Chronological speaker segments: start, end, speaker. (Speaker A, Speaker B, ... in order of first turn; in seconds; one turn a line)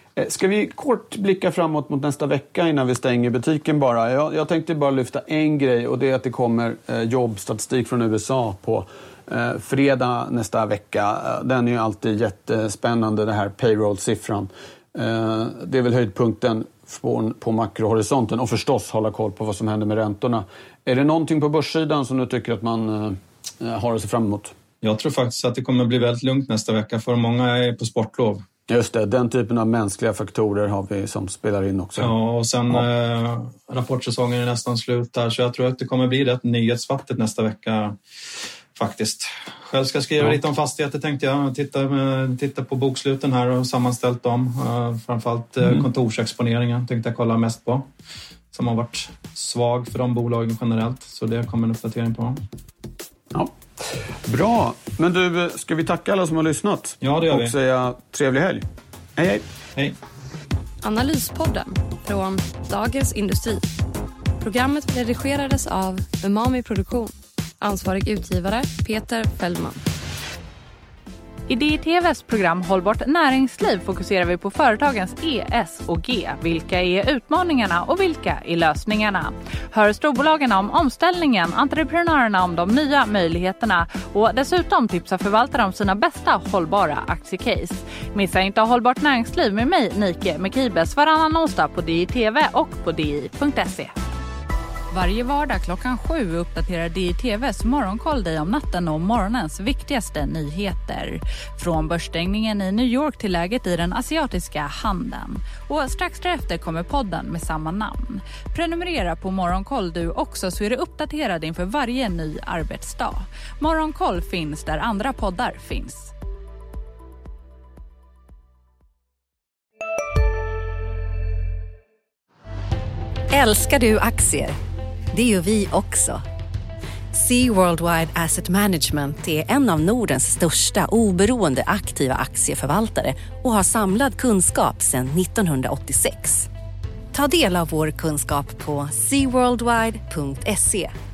Speaker A: 0.2-24.5
Speaker B: 24.8-28.4
Speaker A: 28.7-32.1
Speaker B: 32.0-38.0
Speaker B: 38.7-47.9
Speaker B: 48.5-52.4
Speaker A: 53.3-58.6
Speaker B: 57.0-57.5
Speaker A: 59.2-59.4
Speaker C: 60.8-63.7
Speaker C: 64.4-69.8
Speaker D: 71.5-93.9
Speaker D: 94.9-116.1
Speaker E: 123.3-124.6
Speaker E: 125.1-126.2
Speaker E: 127.1-136.5
Speaker E: 137.1-140.9